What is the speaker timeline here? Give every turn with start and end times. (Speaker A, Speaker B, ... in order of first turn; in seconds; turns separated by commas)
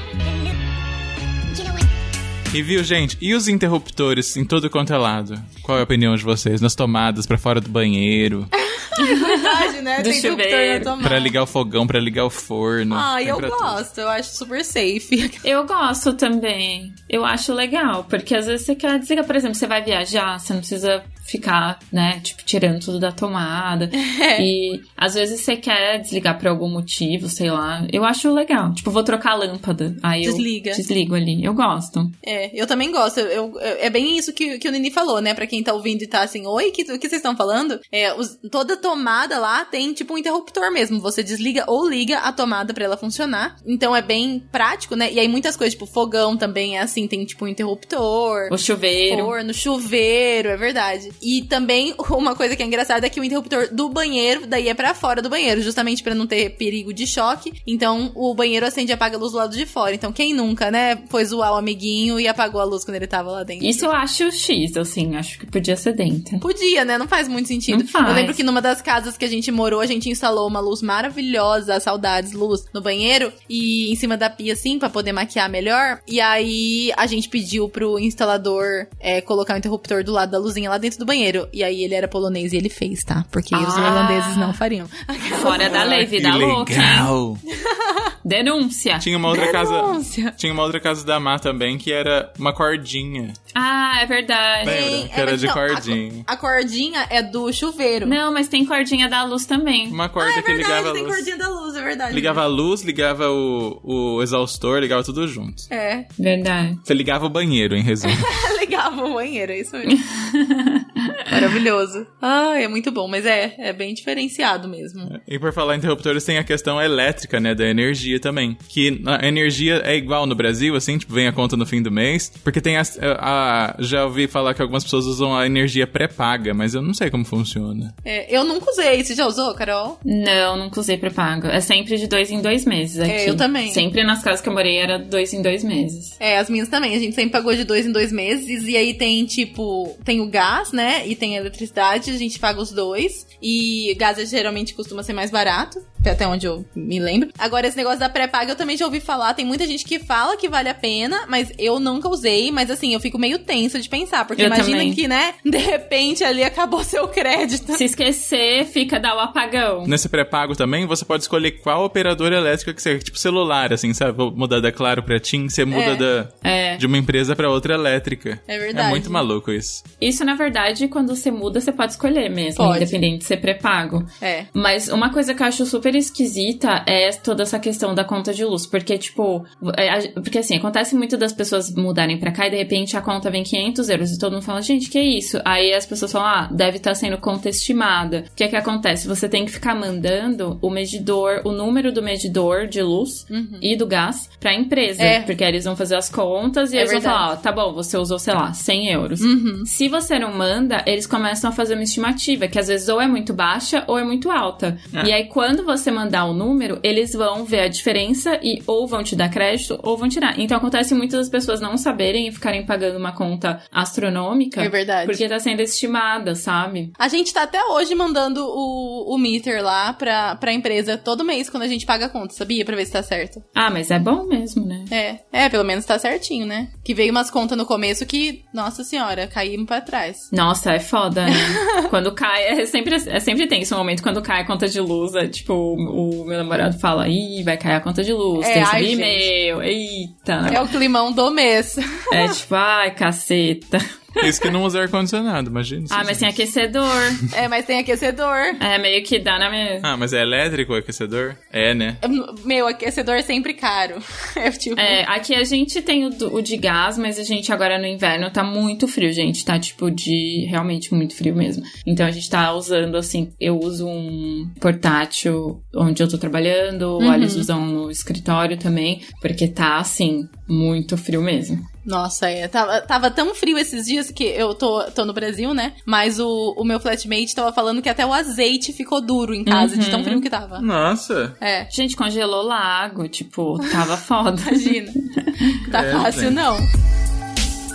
Speaker A: 2.5-8.5, Speaker B: 8.6-11.3, Speaker C: 9.0-10.9, Speaker A: 11.0-13.8, Speaker B: 12.9-15.4, Speaker C: 15.4-32.1, Speaker B: 23.9-24.5, Speaker B: 30.2-30.8, Speaker B: 32.2-48.5, Speaker C: 48.5-49.3, Speaker B: 49.1-63.9, Speaker C: 63.6-66.5, Speaker B: 66.4-85.9, Speaker C: 67.7-68.4, Speaker C: 83.5-84.6, Speaker C: 85.3-87.1, Speaker A: 85.6-87.4, Speaker B: 87.5-88.1, Speaker C: 88.2-89.1, Speaker A: 89.0-93.4, Speaker B: 89.3-90.4, Speaker C: 93.5-94.8, Speaker A: 94.6-96.2, Speaker B: 94.6-98.2, Speaker C: 98.0-100.0, Speaker A: 99.9-101.3, Speaker B: 100.2-102.4, Speaker A: 102.1-105.7, Speaker B: 105.7-106.1, Speaker C: 106.2-106.8, Speaker A: 106.9-108.3, Speaker B: 108.0-110.0, Speaker C: 109.9-111.4, Speaker B: 111.3-115.1, Speaker A: 115.1-127.9, Speaker B: 128.1-130.0, Speaker C: 130.1-136.2, Speaker B: 133.1-133.8, Speaker B: 136.2-157.8, Speaker C: 154.4-155.0, Speaker C: 157.7-159.9, Speaker A: 159.9-169.8, Speaker B: 165.7-166.1, Speaker C: 166.4-166.8, Speaker B: 168.5-169.2, Speaker C: 170.0-216.9, Speaker B: 172.6-173.0, Speaker B: 174.2-174.5, Speaker B: 193.3-193.7, Speaker B: 195.0-195.3, Speaker B: 196.8-197.2, Speaker B: 199.2-199.7, Speaker B: 214.6-215.2, Speaker B: 217.0-223.4, Speaker C: 223.6-224.9, Speaker B: 224.9-230.3, Speaker C: 230.3-240.7, Speaker B: 231.3-231.9, Speaker B: 238.4-239.3, Speaker B: 240.5-242.4, Speaker C: 242.1-244.5, Speaker A: 244.2-246.3, Speaker C: 245.9-247.3, Speaker B: 247.3-248.6, Speaker C: 248.6-249.9, Speaker A: 249.8-252.0, Speaker B: 252.0-255.0, Speaker C: 254.8-271.7, Speaker B: 267.0-267.5, Speaker B: 271.9-280.7, Speaker C: 279.5-280.3, Speaker A: 280.6-281.4, Speaker B: 281.4-281.7, Speaker C: 281.7-285.6, Speaker B: 284.4-285.0, Speaker B: 285.7-286.7, Speaker A: 285.7-286.4